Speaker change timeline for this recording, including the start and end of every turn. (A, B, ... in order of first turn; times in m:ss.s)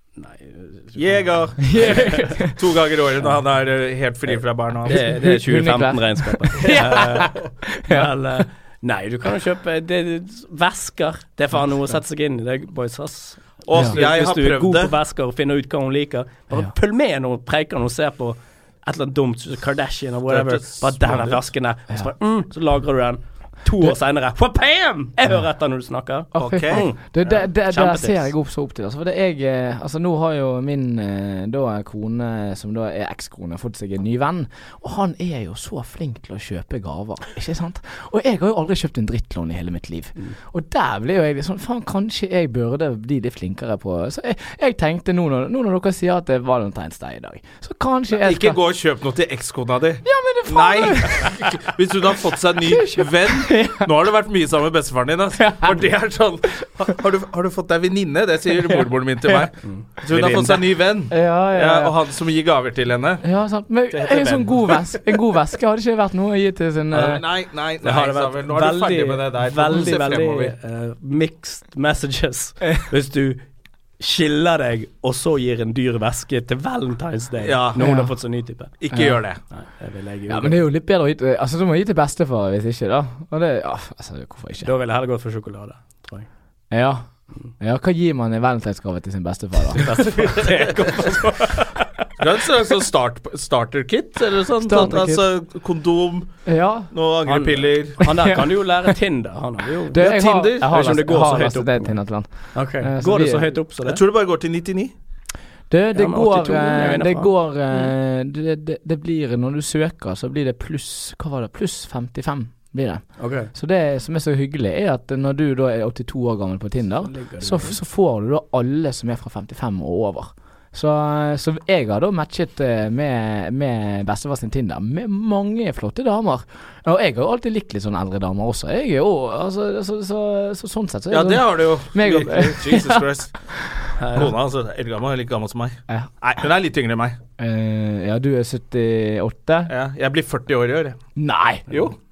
0:00.2-0:02.4 A
0:01.0-0:05.1 B
0:01.6-0:02.6 C
0:04.3-0:28.3 A
0:04.9-0:08.4 C
0:06.7-0:07.0 B
0:13.6-0:14.9 B
0:20.3-0:21.4 B
0:26.3-0:48.6 C
0:26.4-0:26.9 B
0:48.2-1:03.2 B
0:50.0-0:51.6 C
0:52.6-0:53.9 C
0:55.4-0:55.9 C
0:58.6-0:59.5 C
0:59.6-1:00.7 A
1:01.1-1:01.9 C
1:03.2-1:07.2 C
1:03.9-1:05.0 B
1:06.9-1:10.5 B
1:07.8-1:13.5 A
1:14.0-1:18.8 A
1:17.4-1:18.0 B
1:17.8-1:18.2 C
1:18.8-1:19.4 B
1:18.9-1:19.2 C
1:19.5-1:20.6 A
1:20.3-1:24.7 C
1:24.6-1:26.3 A
1:26.7-1:29.9 C
1:29.8-1:32.1 A
1:30.2-1:30.5 B
1:32.2-1:38.1 B
1:34.6-1:35.2 C
1:36.4-1:36.9 C
1:37.3-1:44.0 A
1:38.0-1:38.4 C
1:39.9-1:43.6 C
1:40.0-1:40.7 B
1:43.8-1:44.9 B
1:45.7-2:14.3 C
1:46.0-1:47.3 A
1:53.2-1:53.5 A
1:57.0-1:57.8 A
2:11.1-2:13.5 B
2:14.0-2:14.3 A
2:14.1-2:17.2 B
2:17.4-2:19.7 C
2:19.7-2:21.0 B
2:21.2-2:21.7 C
2:21.7-2:22.0 B